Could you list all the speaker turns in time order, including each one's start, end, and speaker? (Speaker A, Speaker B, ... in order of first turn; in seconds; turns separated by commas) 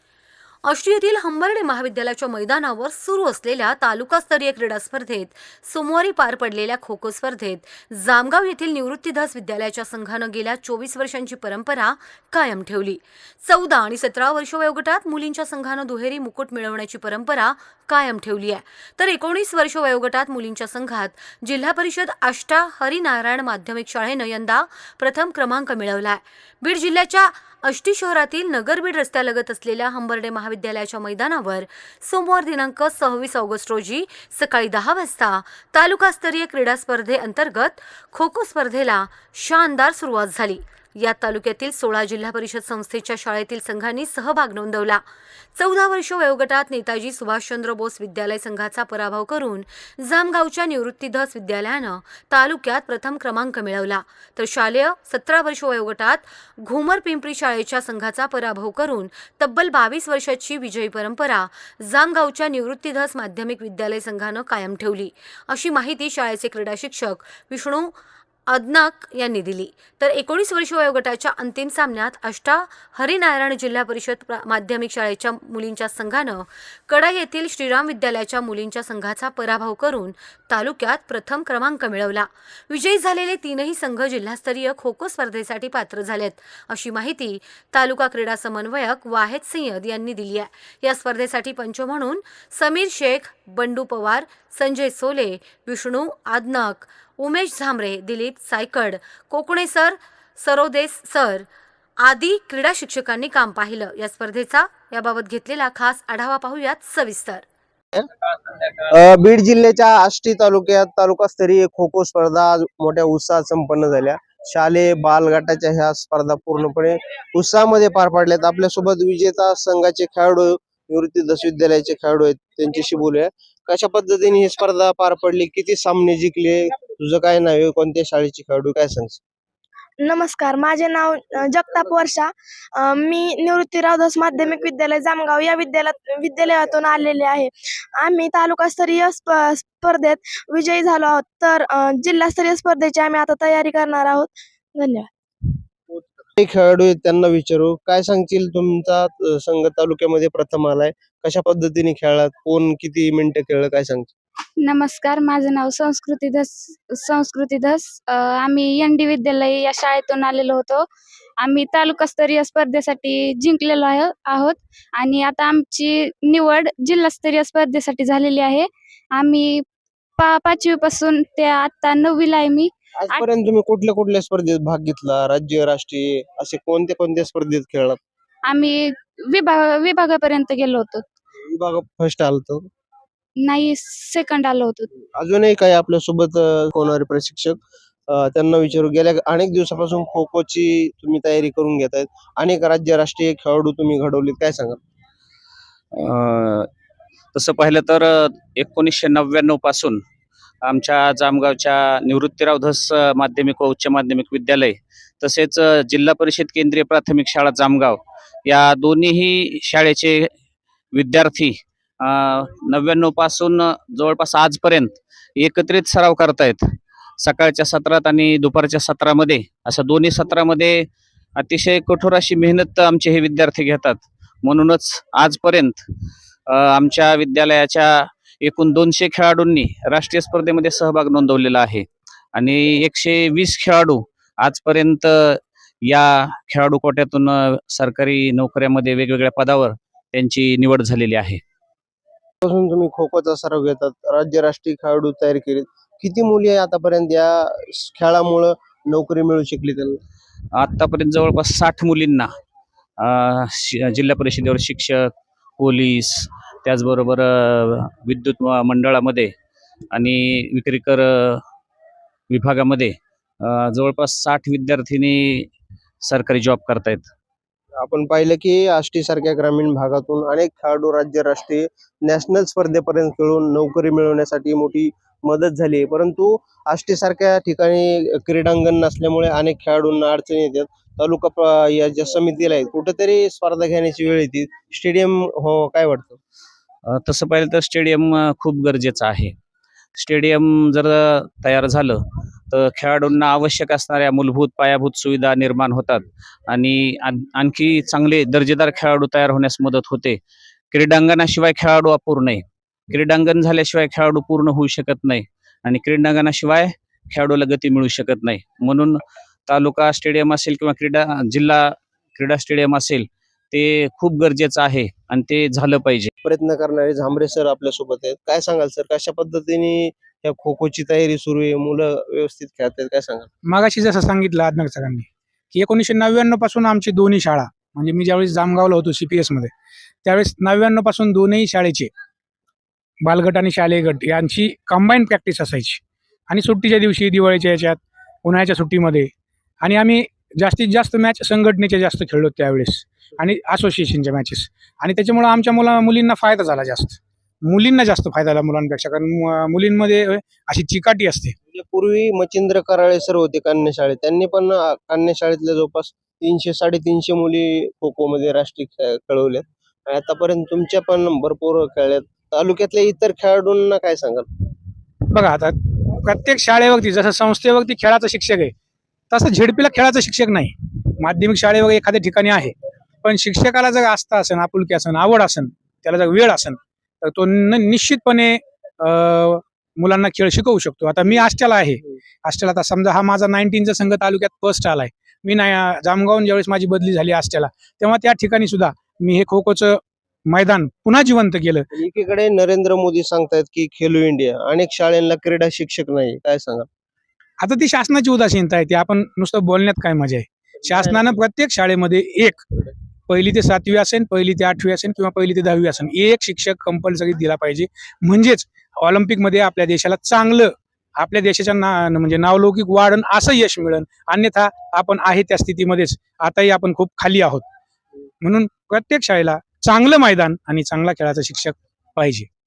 Speaker A: 0.6-45.0, Speaker A: 45.5-67.9, Speaker A: 68.5-101.5, Speaker A: 102.0-107.5, Speaker B: 108.8-129.2, Speaker C: 130.0-145.1, Speaker B: 145.9-154.1, Speaker D: 154.6-160.8, Speaker D: 161.4-169.6, Speaker D: 170.2-173.2, Speaker B: 173.0-178.0, Speaker D: 178.5-181.0, Speaker B: 181.4-182.7, Speaker D: 183.4-184.9, Speaker B: 185.1-187.6, Speaker B: 188.1-194.8, Speaker E: 195.9-196.7, Speaker E: 197.3-200.0, Speaker E: 200.6-210.3, Speaker E: 210.9-216.6, Speaker E: 217.2-225.8, Speaker E: 226.5-241.4, Speaker B: 242.4-250.0, Speaker E: 250.6-252.3, Speaker E: 253.0-259.3, Speaker E: 259.9-261.4, Speaker E: 262.3-265.5, Speaker E: 266.0-267.1, Speaker B: 267.8-286.2, Speaker E: 286.9-289.3, Speaker E: 289.9-292.0, Speaker E: 292.5-300.2, Speaker E: 300.7-316.1, Speaker B: 316.2-323.3, Speaker F: 323.5-329.5, Speaker F: 330.1-331.9, Speaker F: 333.0-339.1, Speaker F: 339.6-351.3, Speaker B: 351.5-364.2, Speaker F: 365.1-368.5, Speaker F: 369.1-391.7, Speaker B: 391.8-396.7, Speaker F: 397.4-402.4, Speaker B: 400.6-401.2, Speaker F: 403.1-417.4, Speaker F: 418.2-422.3